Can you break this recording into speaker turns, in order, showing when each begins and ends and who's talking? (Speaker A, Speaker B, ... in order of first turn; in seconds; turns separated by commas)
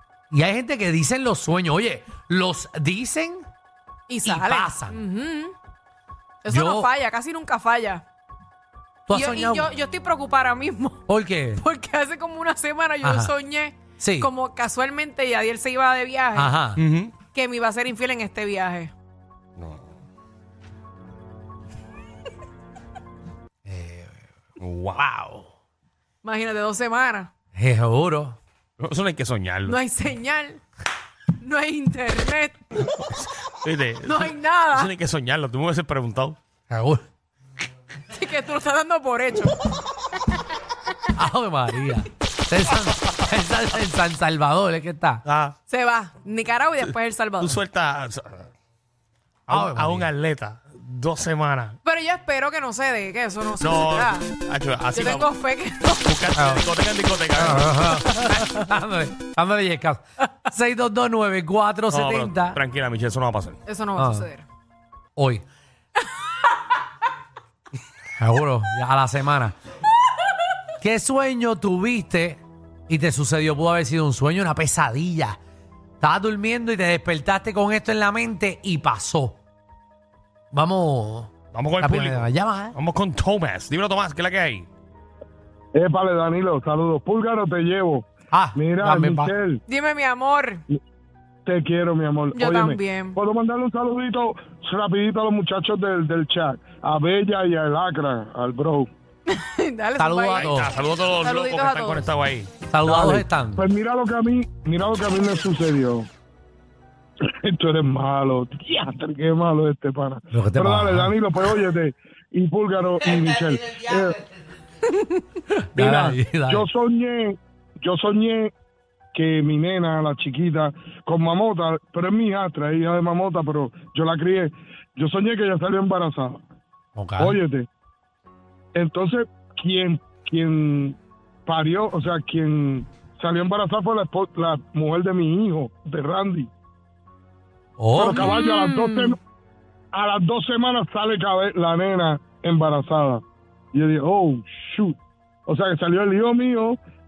Speaker A: 0.3-3.4, Speaker B: 4.1-5.5, Speaker A: 4.2-5.0, Speaker B: 6.4-8.0, Speaker A: 6.5-6.9, Speaker A: 9.1-9.7, Speaker B: 9.1-11.0, Speaker A: 11.1-11.6, Speaker B: 11.6-16.5, Speaker A: 13.0-13.3, Speaker A: 14.0-14.3, Speaker A: 16.3-16.8, Speaker C: 16.8-17.1, Speaker B: 17.3-18.9, Speaker C: 19.6-19.9, Speaker A: 23.6-24.1, Speaker C: 24.6-25.0, Speaker A: 25.0-25.5, Speaker B: 26.2-27.3, Speaker A: 27.5-28.4, Speaker C: 28.8-29.8, Speaker B: 29.6-30.6, Speaker B: 31.4-32.6, Speaker C: 32.8-36.4, Speaker B: 34.0-34.9, Speaker A: 36.7-37.0, Speaker B: 38.1-39.5, Speaker A: 41.1-45.2, Speaker C: 45.2-45.6, Speaker B: 45.7-47.6, Speaker C: 46.9-48.5, Speaker C: 49.5-51.8, Speaker A: 49.5-50.1, Speaker B: 51.8-54.3, Speaker C: 53.6-55.3, Speaker B: 54.9-56.1, Speaker C: 56.0-58.3, Speaker A: 56.4-56.6, Speaker A: 57.3-62.6, Speaker C: 61.9-63.6, Speaker B: 63.6-64.4, Speaker A: 64.0-64.3, Speaker A: 65.2-65.4, Speaker A: 68.2-69.5, Speaker A: 70.8-75.4, Speaker A: 76.0-79.4, Speaker A: 80.5-82.8, Speaker C: 81.5-84.7, Speaker D: 85.7-89.6, Speaker A: 88.3-89.3, Speaker B: 89.7-90.6, Speaker D: 91.5-98.9, Speaker B: 92.3-93.2, Speaker B: 99.3-100.5, Speaker A: 100.0-100.7, Speaker C: 100.3-102.5, Speaker B: 101.2-102.0, Speaker A: 102.7-103.6, Speaker D: 102.8-106.1, Speaker D: 107.4-114.2, Speaker A: 110.3-111.1, Speaker A: 115.7-116.7, Speaker D: 115.8-118.5, Speaker D: 119.1-126.4, Speaker A: 127.0-127.4, Speaker D: 127.2-127.7, Speaker D: 128.7-136.5, Speaker A: 137.8-138.3, Speaker D: 137.9-139.2, Speaker B: 138.0-139.1, Speaker D: 139.9-146.8